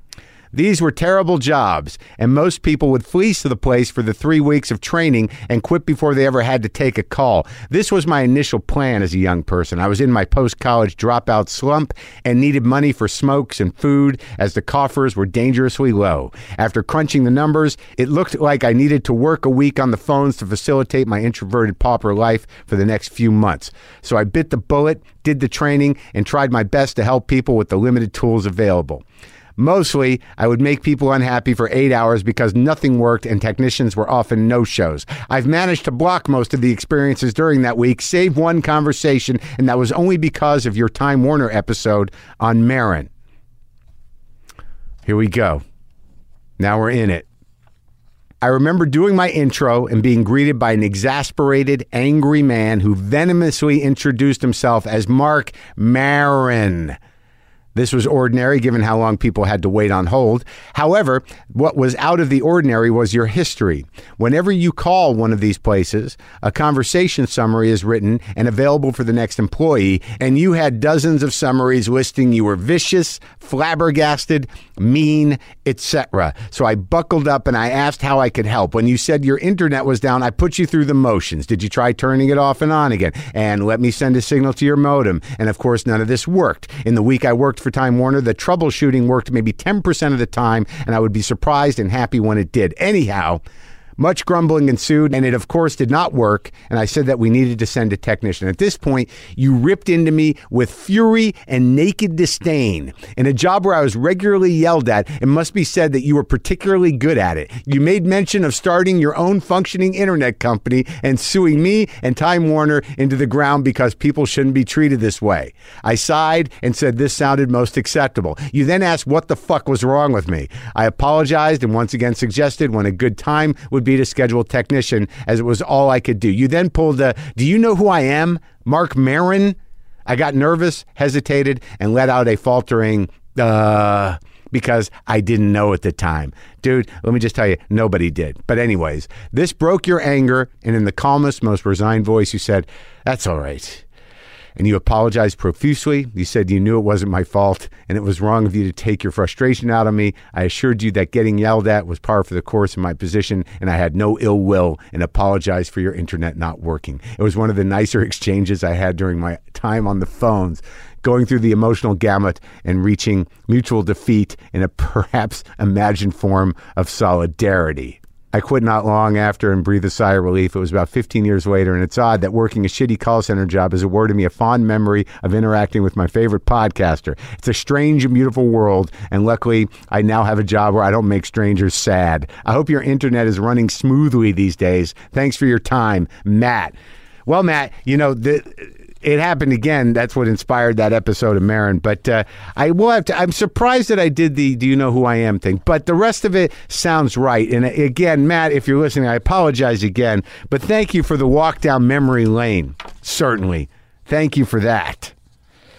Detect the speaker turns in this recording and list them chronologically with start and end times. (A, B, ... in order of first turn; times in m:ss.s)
0:00.5-0:29.0 A
0:29.6-0:43.1 A
0:45.0-0:45.6 A
0:46.6-0:47.2 A
0:48.4-0:57.0 A
0:57.8-1:33.4 A
1:34.0-2:23.8 A
2:24.6-3:06.8 A
3:07.3-3:25.1 A